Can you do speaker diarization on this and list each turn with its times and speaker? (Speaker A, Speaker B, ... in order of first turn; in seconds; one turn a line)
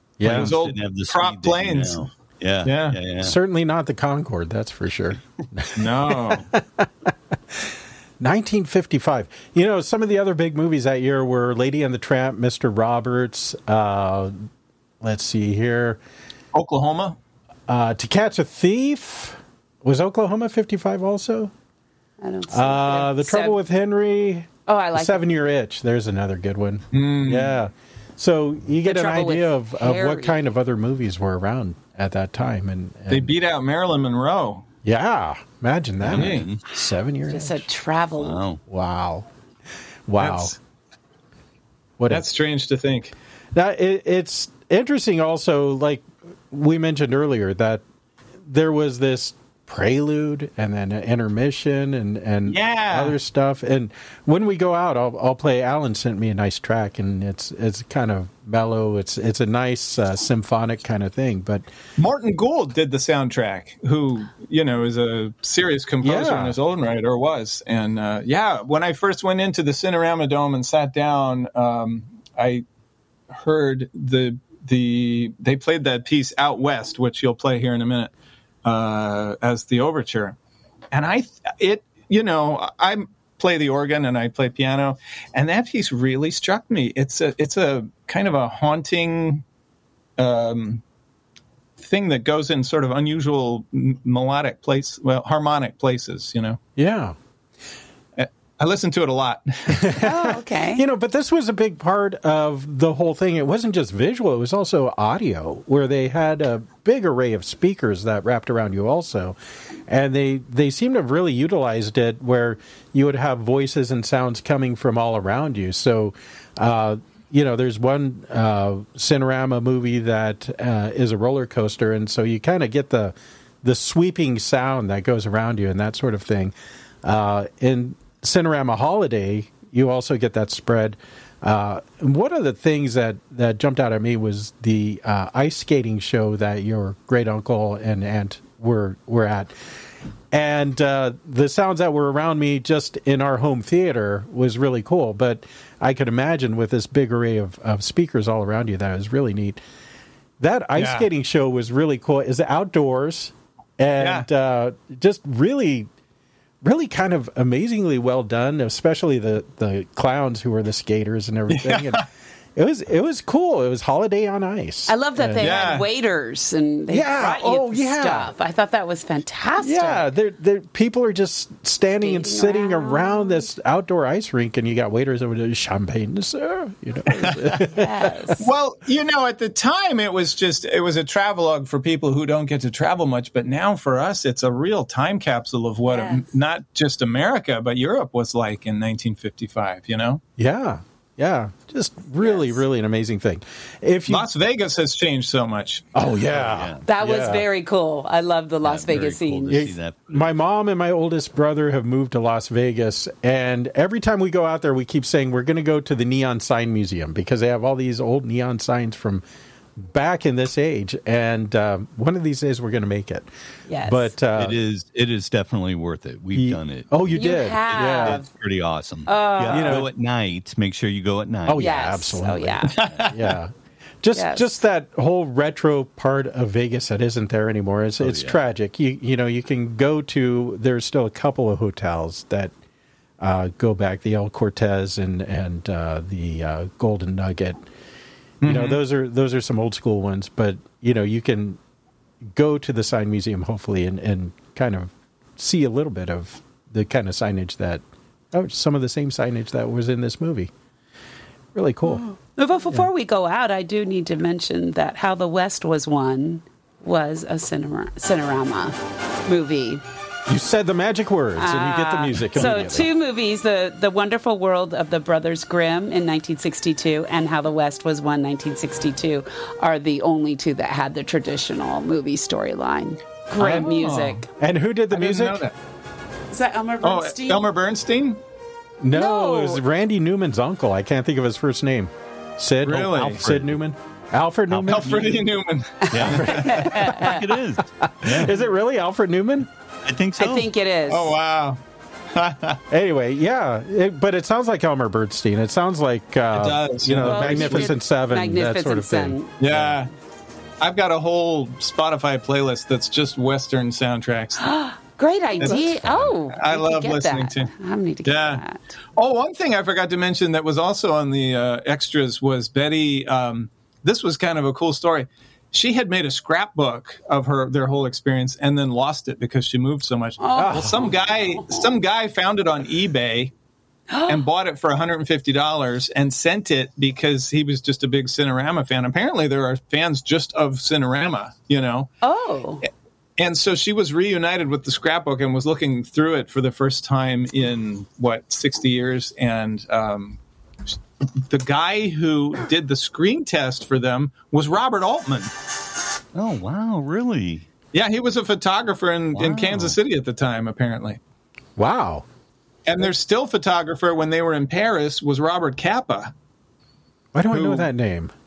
Speaker A: 0.2-0.5
Speaker B: 0.2-3.3
Speaker C: 0.2-2.1
Speaker C: 2.6-3.0
Speaker A: 3.2-14.5
Speaker C: 5.8-6.5
Speaker A: 15.0-16.0
Speaker C: 16.5-17.2
Speaker A: 17.7-21.5
Speaker D: 22.2-23.6
Speaker A: 22.5-33.3
Speaker D: 24.7-25.3
Speaker C: 26.9-27.6
Speaker D: 28.8-30.4
Speaker C: 33.1-34.6
Speaker A: 34.8-37.7
Speaker B: 36.0-36.6
Speaker C: 36.1-36.5
Speaker D: 37.3-38.4
Speaker B: 38.2-38.6
Speaker A: 38.7-39.3
Speaker A: 40.1-40.5
Speaker C: 40.2-40.6
Speaker A: 42.0-42.2
Speaker C: 42.1-43.1
Speaker A: 43.5-47.8
Speaker A: 48.5-61.6
Speaker C: 52.5-53.1
Speaker C: 62.0-72.6
Speaker A: 66.0-66.5
Speaker C: 73.3-78.1
Speaker C: 78.6-80.4
Speaker C: 80.9-89.4
Speaker C: 90.2-90.8
Speaker C: 91.8-96.6
Speaker A: 96.8-97.2
Speaker C: 98.2-99.9
Speaker A: 99.7-109.4
Speaker D: 100.0-100.8
Speaker A: 109.9-139.5
Speaker A: 140.3-149.6
Speaker A: 150.4-155.9
Speaker C: 150.8-151.1
Speaker C: 154.0-154.2
Speaker A: 156.6-165.5
Speaker C: 161.5-162.0
Speaker D: 164.9-170.0
Speaker C: 165.4-165.9
Speaker A: 166.9-168.3
Speaker A: 169.6-178.1
Speaker D: 172.0-173.4
Speaker C: 177.1-177.4
Speaker D: 177.8-178.5
Speaker C: 178.4-190.2
Speaker D: 185.8-186.2
Speaker A: 190.4-194.3
Speaker D: 192.2-192.6
Speaker C: 194.1-195.9
Speaker A: 195.9-197.4
Speaker B: 196.2-196.8
Speaker D: 196.8-199.6
Speaker B: 198.6-200.3
Speaker A: 199.5-209.2
Speaker A: 209.8-213.3
Speaker D: 213.7-214.1
Speaker A: 213.8-214.6
Speaker B: 214.3-217.2
Speaker A: 216.3-218.2
Speaker D: 217.1-218.3
Speaker B: 217.7-221.8
Speaker D: 219.1-219.8
Speaker A: 219.5-219.9
Speaker A: 221.5-232.5
Speaker D: 221.6-222.7
Speaker C: 222.7-223.3
Speaker D: 224.1-224.5
Speaker B: 228.0-228.4
Speaker A: 233.2-237.6
Speaker C: 238.4-238.8
Speaker A: 238.4-241.6
Speaker A: 242.2-250.5
Speaker A: 251.5-252.0
Speaker D: 251.8-259.8
Speaker A: 260.3-262.9
Speaker D: 261.4-274.3
Speaker C: 273.4-274.2
Speaker A: 274.4-275.4
Speaker C: 274.9-275.6
Speaker D: 276.3-277.5
Speaker C: 276.8-278.2
Speaker A: 278.8-285.1
Speaker D: 278.9-279.6
Speaker C: 282.6-283.4
Speaker B: 284.5-285.3
Speaker C: 284.6-286.7
Speaker D: 285.8-287.2
Speaker B: 285.9-288.4
Speaker A: 286.0-287.0
Speaker A: 287.8-289.5
Speaker B: 289.9-290.5
Speaker D: 290.2-291.1
Speaker C: 290.9-291.6
Speaker C: 292.1-292.6
Speaker A: 292.7-299.8
Speaker C: 296.3-297.7
Speaker D: 297.0-299.3
Speaker C: 299.4-299.9
Speaker C: 300.6-304.4
Speaker D: 304.4-308.8
Speaker A: 305.3-306.1
Speaker C: 306.3-307.5
Speaker C: 308.0-308.4
Speaker C: 308.9-323.3
Speaker D: 320.2-321.6
Speaker A: 320.4-320.9
Speaker D: 323.9-324.2
Speaker C: 324.1-331.9
Speaker D: 332.0-332.6
Speaker C: 333.2-340.2
Speaker C: 341.3-345.3
Speaker B: 346.1-347.5
Speaker C: 347.7-351.0
Speaker B: 349.1-349.8
Speaker A: 351.6-352.0
Speaker C: 352.6-356.1
Speaker A: 357.1-358.1
Speaker C: 357.3-357.7